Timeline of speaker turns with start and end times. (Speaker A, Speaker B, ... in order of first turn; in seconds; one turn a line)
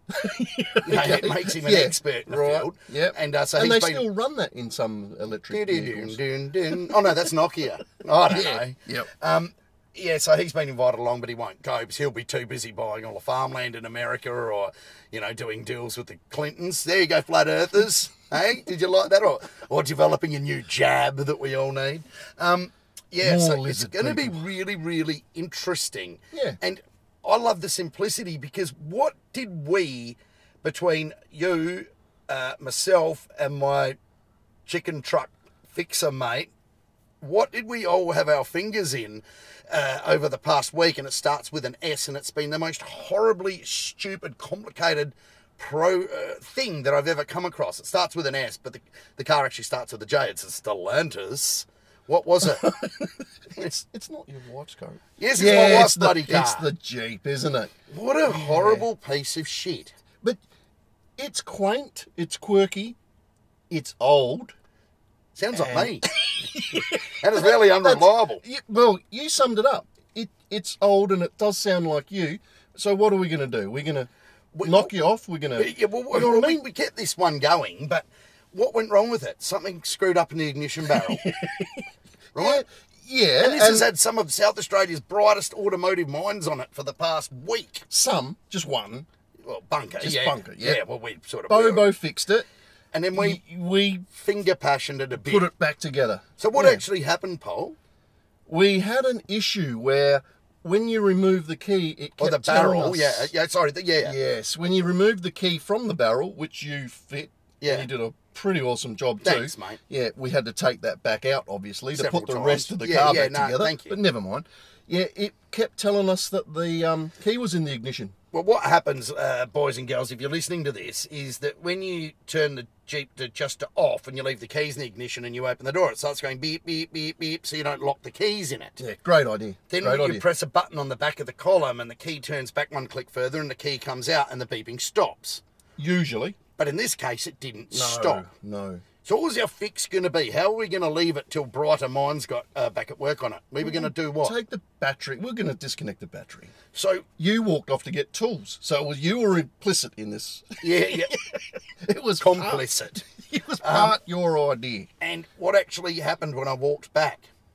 Speaker A: 0.1-7.2
Speaker B: 0.8-4.1
Speaker B: 5.5-34.0
Speaker A: 8.3-9.1
Speaker A: 23.2-24.4
Speaker A: 26.3-26.6
Speaker B: 34.7-36.5
Speaker B: 37.2-52.8
Speaker A: 52.5-57.7
Speaker B: 55.2-56.7
Speaker B: 57.9-60.0
Speaker A: 58.2-58.9
Speaker A: 61.2-63.0
Speaker A: 63.7-64.5
Speaker B: 65.3-66.1
Speaker A: 65.5-74.1
Speaker B: 66.7-68.4
Speaker B: 74.5-74.9
Speaker A: 74.6-76.7
Speaker B: 75.5-81.4
Speaker A: 80.9-81.8
Speaker B: 82.3-82.6
Speaker A: 82.3-83.9
Speaker B: 83.4-87.8
Speaker A: 87.9-89.1
Speaker B: 89.4-91.9
Speaker A: 90.0-90.8
Speaker A: 91.5-92.5
Speaker B: 92.9-93.4
Speaker A: 93.1-94.1
Speaker B: 94.1-95.5
Speaker A: 95.2-96.8
Speaker B: 96.4-97.8
Speaker A: 98.5-103.3
Speaker B: 102.2-104.2
Speaker A: 104.0-118.1
Speaker B: 107.6-107.9
Speaker B: 109.2-109.8
Speaker B: 111.9-114.0
Speaker B: 118.3-128.8
Speaker A: 128.8-130.2
Speaker B: 129.7-135.4
Speaker A: 135.8-136.4
Speaker B: 136.6-138.3
Speaker A: 137.7-138.8
Speaker B: 139.0-144.4
Speaker A: 143.6-146.5
Speaker B: 146.7-147.1
Speaker A: 147.2-152.7
Speaker B: 150.6-151.2
Speaker B: 152.2-153.1
Speaker A: 153.2-154.9
Speaker B: 153.6-154.0
Speaker B: 155.0-157.3